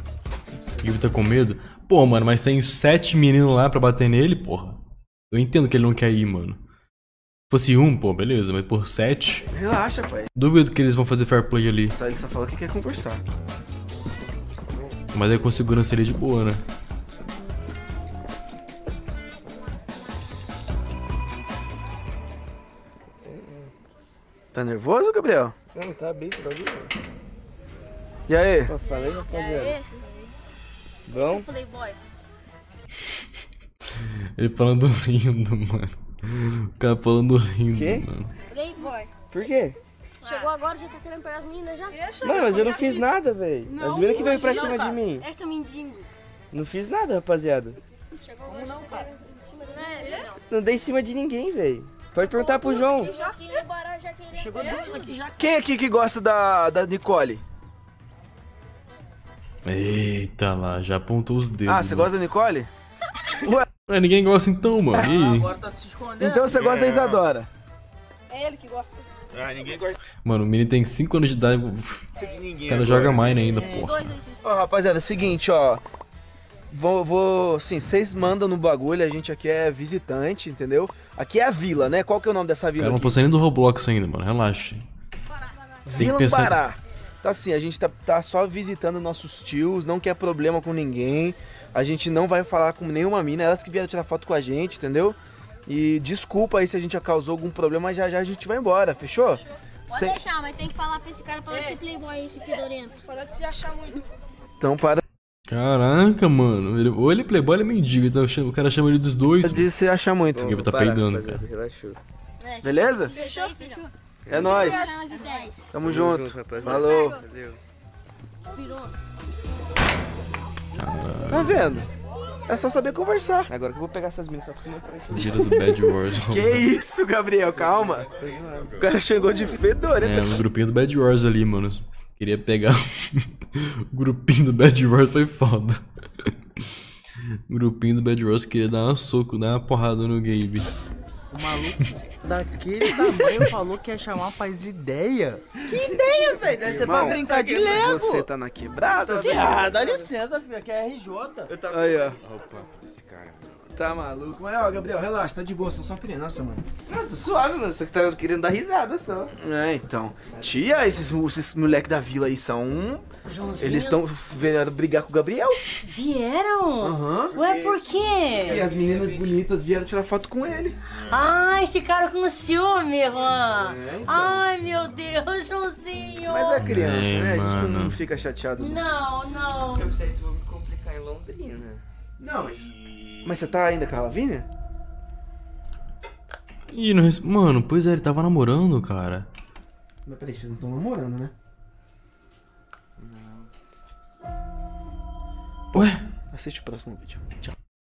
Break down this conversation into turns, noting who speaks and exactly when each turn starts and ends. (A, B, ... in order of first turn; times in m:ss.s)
0:00.8-0:04.8 A
0:05.3-0:06.6 A
0:07.5-0:09.4 A
0:09.5-0:10.3 B
0:10.4-0:12.0 A
0:11.9-0:13.2 B
0:14.7-0:15.0 C
0:15.1-0:16.6 A
0:23.2-0:23.7 C
0:24.5-0:25.6 B
0:25.7-0:26.9 C
0:28.3-0:28.8 B
0:28.7-0:29.8 C
0:29.3-0:29.7 D
0:31.1-0:31.5 C
0:31.2-0:32.0 E
0:34.0-0:38.3 A
0:37.7-0:38.0 C
0:38.5-0:39.1 E
0:38.7-0:39.0 D
0:39.3-0:39.8 C
0:40.2-0:42.0 E
0:40.2-0:40.5 D
0:41.9-0:43.0 D
0:42.2-0:45.3 C
0:43.8-0:46.1 E
0:44.1-0:45.0 D
0:46.5-0:47.8 C
0:48.2-0:50.4 D
0:48.5-0:50.4 E
0:50.5-0:53.1 C
0:52.2-0:53.7 D
0:52.3-0:55.1 E
0:54.4-0:55.5 F
0:54.4-0:55.1 D
0:55.4-0:57.4 B
0:59.6-1:02.1 A
1:01.7-1:02.7 B
1:03.4-1:03.7 B
1:03.9-1:05.5 A
1:04.9-1:06.6 F
1:06.2-1:07.5 B
1:06.5-1:07.2 G
1:08.3-1:09.0 D
1:09.3-1:10.0 G
1:10.2-1:12.1 A
1:12.2-1:13.6 G
1:12.7-1:14.0 A
1:13.6-1:14.4 D
1:14.4-1:15.8 B
1:16.7-1:23.2 B
1:22.8-1:24.8 A
1:25.9-1:40.2 B
1:26.0-1:26.6 A
1:39.9-1:43.0 E
1:41.5-1:41.8 D
1:42.4-1:44.1 D
1:44.6-1:45.0 B
1:45.5-1:49.7 A
1:49.4-1:50.6 B
1:50.3-1:52.0 C
1:50.4-1:51.4 A
1:52.4-1:53.9 D
1:52.6-1:53.2 B
1:52.6-1:53.8 E
1:54.2-1:54.9 C
1:54.3-1:54.9 B
1:54.4-1:55.7 E
1:54.4-1:55.6 D
1:55.7-1:57.2 B
1:55.8-1:57.6 C
1:56.6-1:57.2 E
1:58.6-1:58.8 E
2:00.8-2:01.8 A
2:01.3-2:01.9 B
2:02.5-2:03.5 B
2:03.5-2:05.6 C
2:05.1-2:06.7 A
2:05.5-2:08.1 B
2:07.5-2:09.6 C
2:07.6-2:09.2 G
2:08.8-2:10.4 B
2:10.0-2:16.6 A
2:17.5-2:20.7 A
2:21.3-2:28.3 F
2:23.1-2:23.4 B
2:25.7-2:26.0 C
2:26.1-2:29.7 B
2:29.0-2:30.1 C
2:29.1-2:31.6 F
2:31.5-2:32.7 C
2:31.7-2:32.2 B
2:32.1-2:33.7 G
2:33.8-2:36.7 B
2:36.9-2:39.3 C
2:39.4-2:43.1 B
2:40.3-2:41.1 C
2:43.3-2:44.0 H
2:43.6-2:45.6 B
2:45.8-2:48.6 H
2:46.8-2:47.3 B
2:47.3-2:49.4 C
2:48.4-2:50.8 B
2:50.9-2:51.4 G
2:51.1-2:56.6 H
2:53.1-2:53.4 G
2:53.6-2:54.4 B
2:56.3-2:58.8 B
2:56.6-2:58.0 A
2:58.6-2:59.9 H
2:59.6-3:01.8 C
3:02.2-3:02.7 B
3:02.3-3:03.7 G
3:03.2-3:04.5 B
3:06.7-3:09.3 A
3:10.1-3:11.3 B
3:15.7-3:17.5 B
3:15.7-3:16.0 A